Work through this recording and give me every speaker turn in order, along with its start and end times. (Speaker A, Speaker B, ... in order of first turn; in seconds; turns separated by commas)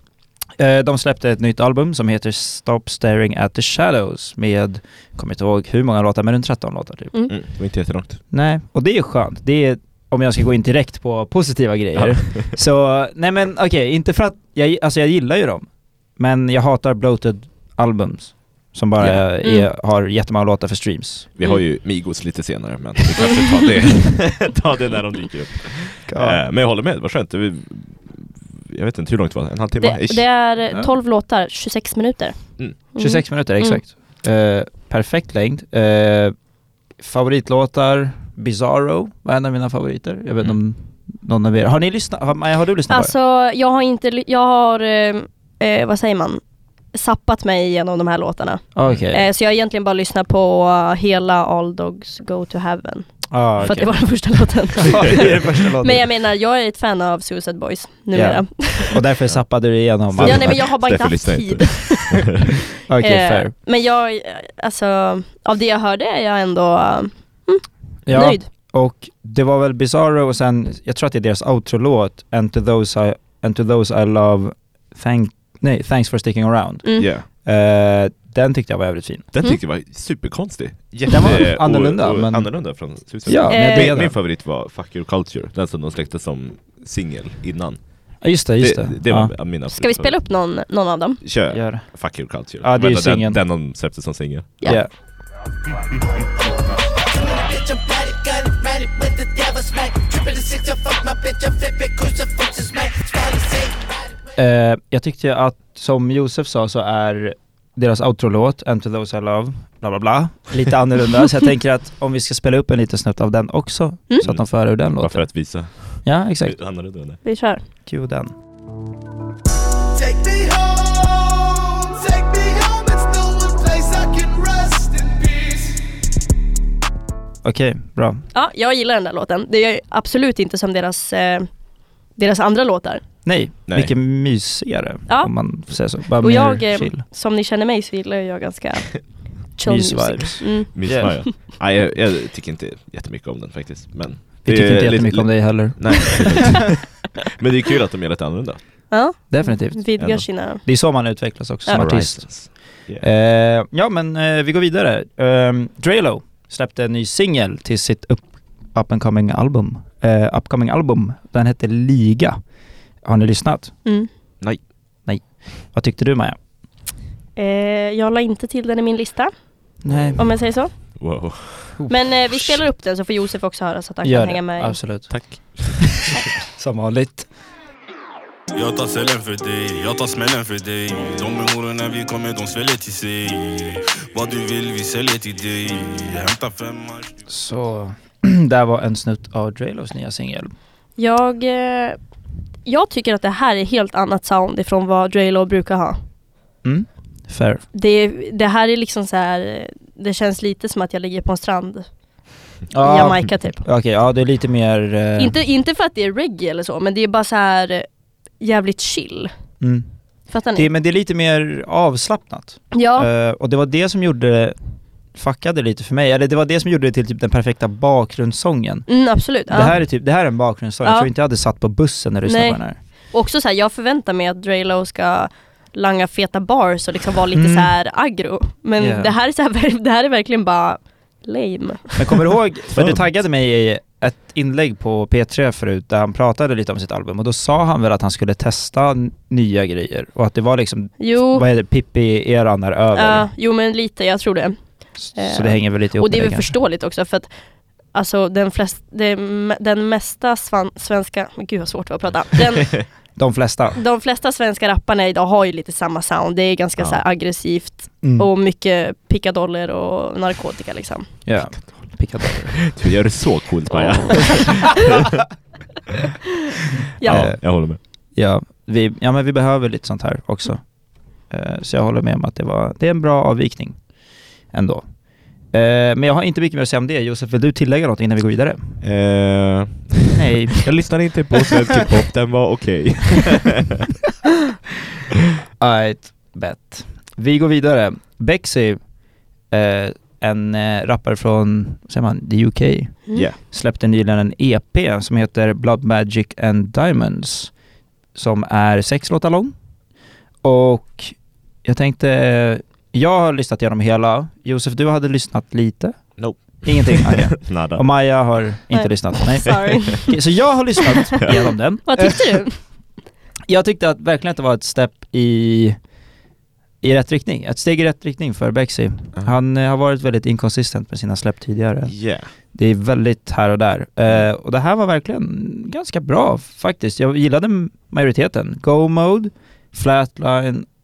Speaker A: 0.6-7.2, Speaker B: 7.3-8.2, Speaker A: 8.3-21.3, Speaker B: 11.9-12.5, Speaker B: 19.0-19.2, Speaker C: 19.4-19.7, Speaker B: 21.3-30.2, Speaker C: 23.2-23.7, Speaker A: 26.1-26.4, Speaker C: 29.8-33.8, Speaker A: 33.0-36.3, Speaker A: 37.0-43.1, Speaker C: 42.9-59.0, Speaker A: 48.7-49.2, Speaker A: 53.3-56.0, Speaker B: 53.6-53.9, Speaker A: 58.1-60.7, Speaker B: 59.3-62.2, Speaker C: 60.2-62.3, Speaker A: 62.8-63.5, Speaker C: 63.0-68.5, Speaker A: 68.0-79.3, Speaker C: 76.8-77.1, Speaker B: 77.0-77.3, Speaker B: 79.3-88.1, Speaker A: 81.1-84.1, Speaker C: 83.5-84.0, Speaker A: 88.2-89.3, Speaker B: 88.6-90.2, Speaker C: 89.7-91.2, Speaker B: 91.2-94.7, Speaker A: 91.5-93.4, Speaker A: 94.6-94.9, Speaker D: 100.3-100.6, Speaker D: 102.4-102.8, Speaker A: 104.3-115.5, Speaker B: 114.2-117.2, Speaker A: 116.0-116.6, Speaker C: 117.2-117.6, Speaker A: 117.8-118.3, Speaker D: 119.9-125.8, Speaker A: 127.4-128.2, Speaker C: 128.3-131.5, Speaker C: 132.2-133.0, Speaker A: 133.2-137.0, Speaker B: 133.7-133.9, Speaker C: 135.1-135.3, Speaker C: 136.0-140.7, Speaker A: 139.7-141.1, Speaker B: 140.7-148.6, Speaker A: 144.4-146.6, Speaker C: 148.9-150.6, Speaker A: 149.3-162.4, Speaker B: 150.0-150.2, Speaker B: 151.7-153.1, Speaker A: 163.0-163.7, Speaker A: 165.1-166.4, Speaker C: 167.4-169.3, Speaker A: 169.8-170.2, Speaker B: 169.9-170.4, Speaker C: 170.2-170.7, Speaker B: 170.9-171.8, Speaker A: 171.8-172.1, Speaker C: 171.9-174.8, Speaker A: 174.0-177.3, Speaker B: 175.1-176.1, Speaker E: 178.5-187.1, Speaker A: 187.3-190.5, Speaker C: 191.0-192.0, Speaker C: 192.6-196.0, Speaker A: 196.6-197.6, Speaker C: 197.7-201.9, Speaker A: 202.7-205.3, Speaker C: 202.8-203.6, Speaker C: 205.2-209.3, Speaker A: 209.6-209.9, Speaker C: 210.3-210.7, Speaker A: 210.5-214.6, Speaker C: 212.7-213.1, Speaker A: 215.1-222.8, Speaker C: 218.9-219.8, Speaker C: 220.8-221.1, Speaker C: 222.2-232.2, Speaker A: 227.3-227.8, Speaker A: 228.8-229.1, Speaker A: 232.0-243.3, Speaker B: 232.7-233.1, Speaker C: 241.0-241.4, Speaker C: 242.9-252.9, Speaker A: 245.0-246.6, Speaker A: 253.2-253.8, Speaker C: 253.8-261.1, Speaker A: 258.0-258.3, Speaker A: 261.2-262.7, Speaker B: 262.7-265.2, Speaker C: 263.7-264.1, Speaker C: 267.0-267.2, Speaker B: 267.0-267.8, Speaker A: 267.1-273.8, Speaker A: 274.5-274.9, Speaker A: 275.5-278.8, Speaker B: 278.8-283.8, Speaker A: 280.1-281.2, Speaker A: 285.6-288.9, Speaker A: 289.5-297.5, Speaker B: 293.1-293.4, Speaker A: 298.1-299.5, Speaker A: 300.4-312.4, Speaker B: 306.2-307.8, Speaker C: 308.7-310.1, Speaker B: 311.2-311.5, Speaker C: 311.8-312.6, Speaker A: 313.5-315.8, Speaker A: 316.8-322.0, Speaker B: 321.9-322.3, Speaker A: 322.5-330.7